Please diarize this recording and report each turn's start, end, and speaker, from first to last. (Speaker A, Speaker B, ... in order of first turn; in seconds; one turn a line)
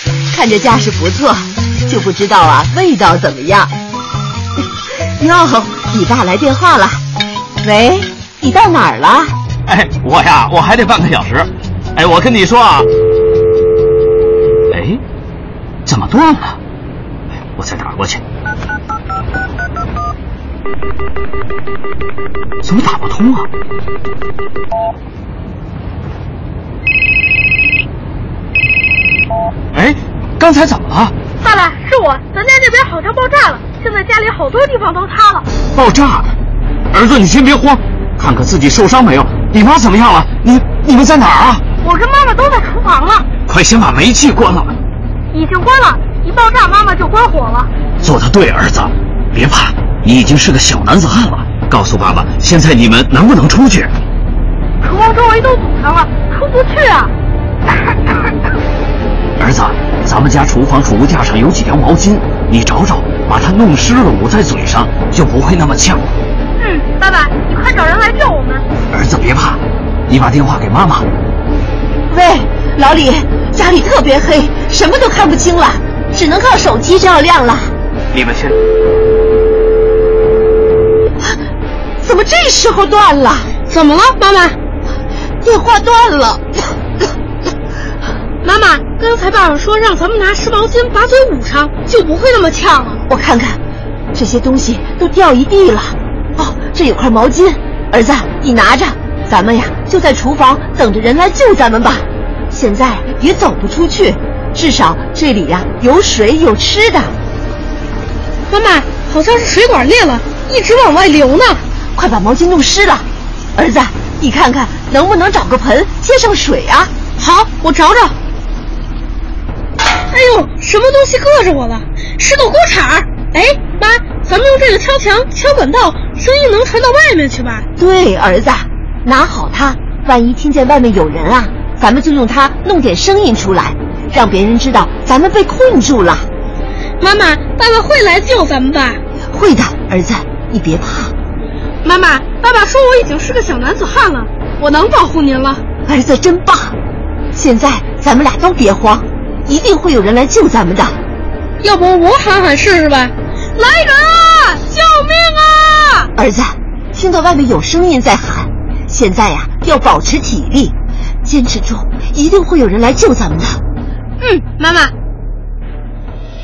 Speaker A: 0.3-3.7
Speaker A: 5.2-7.0
Speaker A: 7.6-9.3
Speaker B: 9.7-12.9
Speaker B: 14.7-15.0
Speaker B: 15.8-16.6
Speaker B: 17.5-18.2
Speaker B: 22.6-23.5
Speaker B: 29.7-31.1
Speaker C: 31.4-35.5
Speaker B: 35.7-36.3
Speaker B: 36.9-41.6
Speaker C: 41.8-43.2
Speaker B: 43.5-44.8
Speaker C: 45.3-47.7
Speaker B: 48.0-53.9
Speaker C: 54.8-57.1
Speaker B: 59.4-66.2
Speaker C: 66.6-68.6
Speaker B: 68.9-71.0
Speaker A: 72.1-77.7
Speaker B: 78.1-78.5
Speaker A: 82.0-83.5
Speaker C: 83.7-84.5
Speaker A: 85.4-86.6
Speaker C: 88.4-93.0
Speaker A: 93.1-93.6
Speaker A: 94.1-107.1
Speaker C: 108.5-111.6
Speaker A: 111.9-116.9
Speaker C: 117.2-118.1
Speaker C: 120.1-127.7
Speaker A: 127.8-136.3
Speaker C: 137.0-139.0
Speaker A: 139.3-141.1
Speaker C: 141.8-145.6
Speaker A: 145.8-146.7
Speaker A: 147.3-151.0
Speaker C: 151.6-156.1
Speaker A: 156.2-163.6
Speaker C: 164.2-164.9